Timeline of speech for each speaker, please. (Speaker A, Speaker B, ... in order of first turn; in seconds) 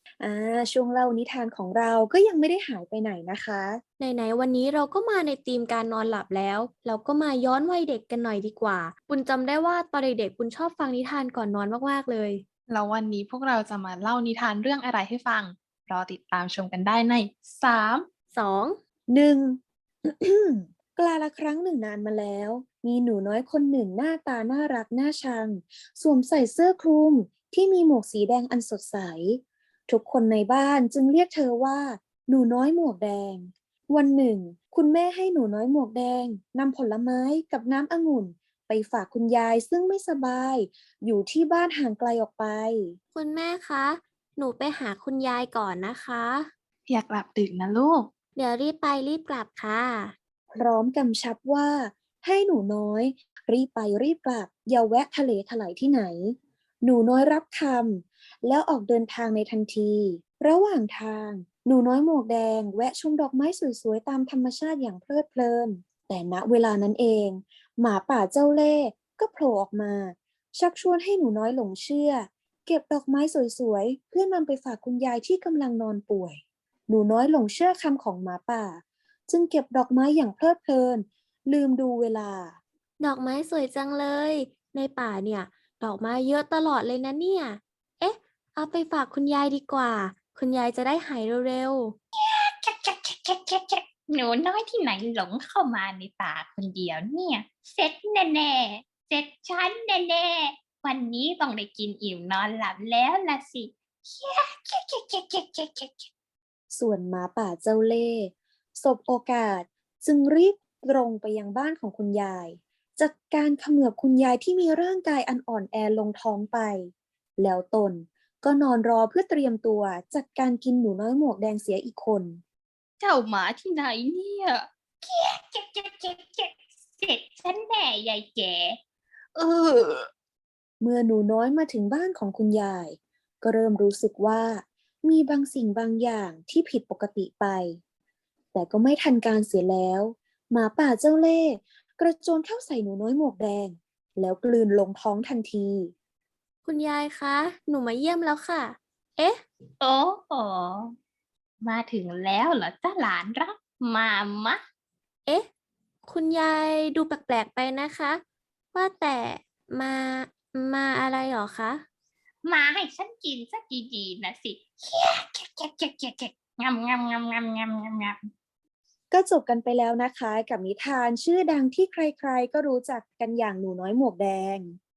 Speaker A: 0.2-3.8, 19.1-43.0, 50.5-82.6, 106.7-122.4, 130.8-137.8, 138.5-145.9, 169.1-174.8
Speaker B: 4.0-12.4, 18.3-18.8, 43.1-46.5, 48.4-50.1, 83.0-92.0, 146.6-149.4, 156.0-158.2, 158.7-161.8
Speaker C: 12.7-18.1, 46.9-48.1, 129.3-129.8
Speaker D: 92.1-106.1, 123.0-128.8, 149.8-150.9, 151.6-154.6, 162.4-168.3